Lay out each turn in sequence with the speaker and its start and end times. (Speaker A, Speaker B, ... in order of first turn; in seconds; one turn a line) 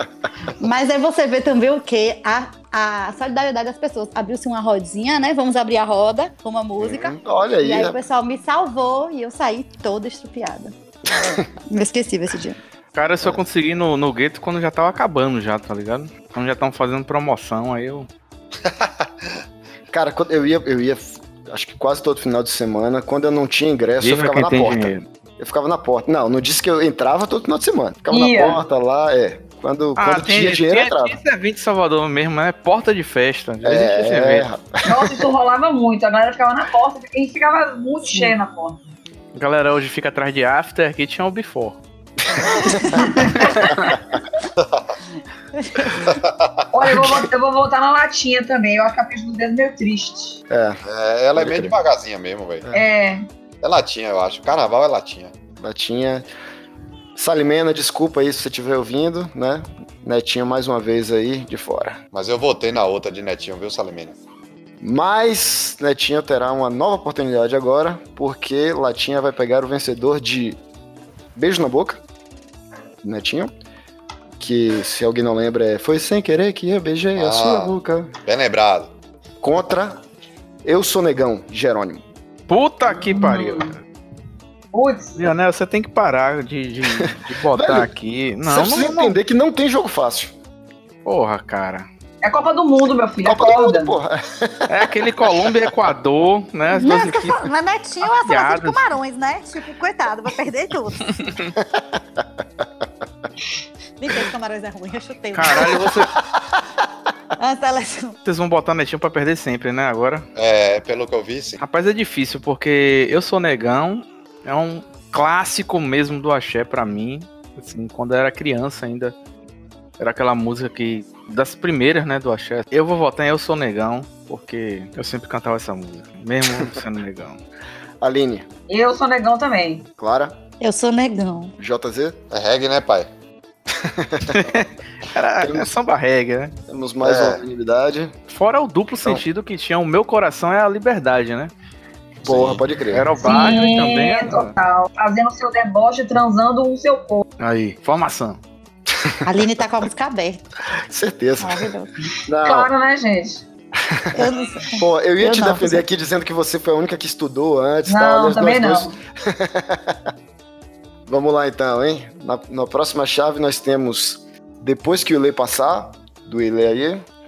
Speaker A: 0.6-10.7
Speaker B: 6.8-8.0
Speaker A: 11.4-12.6
Speaker C: 12.9-18.1
Speaker B: 19.9-31.2
Speaker C: 24.0-25.1
Speaker D: 28.1-28.6
Speaker C: 30.0-34.5
Speaker B: 33.6-35.2
Speaker D: 34.8-38.8
Speaker C: 39.3-41.8
Speaker B: 42.3-43.0
Speaker A: 42.6-43.0
Speaker D: 43.1-43.9
Speaker C: 43.4-43.7
Speaker E: 44.6-44.9
Speaker A: 45.6-46.1
Speaker E: 46.1-46.6
Speaker D: 46.7-50.4
Speaker B: 50.5-50.8
Speaker E: 50.8-52.7
Speaker B: 51.3-51.8
Speaker D: 52.7-53.3
Speaker E: 53.6-55.3
Speaker B: 55.6-56.3
Speaker B: 57.1-62.0
Speaker E: 62.1-64.2
Speaker B: 64.8-70.6
Speaker B: 71.3-72.0
Speaker B: 73.0-73.5
Speaker B: 74.4-78.1
Speaker E: 77.2-77.7
Speaker E: 78.2-78.9
Speaker B: 79.4-80.0
Speaker B: 80.6-82.0
Speaker C: 82.5-83.8
Speaker D: 82.9-83.7
Speaker D: 84.7-85.2
Speaker C: 85.2-89.2
Speaker B: 87.0-87.9
Speaker B: 88.4-90.3
Speaker C: 91.0-91.9
Speaker D: 92.2-94.0
Speaker B: 93.2-94.8
Speaker C: 94.7-97.5
Speaker A: 96.7-101.2
Speaker C: 98.2-98.8
Speaker C: 101.2-101.5
Speaker B: 101.8-102.2
Speaker A: 104.0-105.9
Speaker C: 105.3-106.1
Speaker A: 107.4-108.2
Speaker C: 108.2-110.2
Speaker E: 110.3-111.6
Speaker C: 111.6-119.1
Speaker C: 120.0-127.4
Speaker B: 128.0-128.4
Speaker D: 128.7-129.9
Speaker B: 130.0-130.4
Speaker A: 130.6-131.5
Speaker B: 131.6-132.2
Speaker E: 132.3-133.1
Speaker B: 133.7-134.4
Speaker C: 134.3-136.5
Speaker B: 135.4-135.7
Speaker B: 136.7-138.1
Speaker E: 137.0-137.4
Speaker C: 138.3-141.5
Speaker B: 142.2-143.1
Speaker E: 142.2-142.6
Speaker C: 142.9-144.5
Speaker D: 143.2-147.2
Speaker C: 147.4-148.4
Speaker A: 149.2-150.4
Speaker B: 150.9-151.7
Speaker A: 151.4-151.9
Speaker B: 152.3-152.7
Speaker D: 152.4-153.4
Speaker B: 153.8-154.2
Speaker A: 154.1-155.8
Speaker B: 154.8-160.1
Speaker D: 157.9-158.9
Speaker B: 161.1-167.0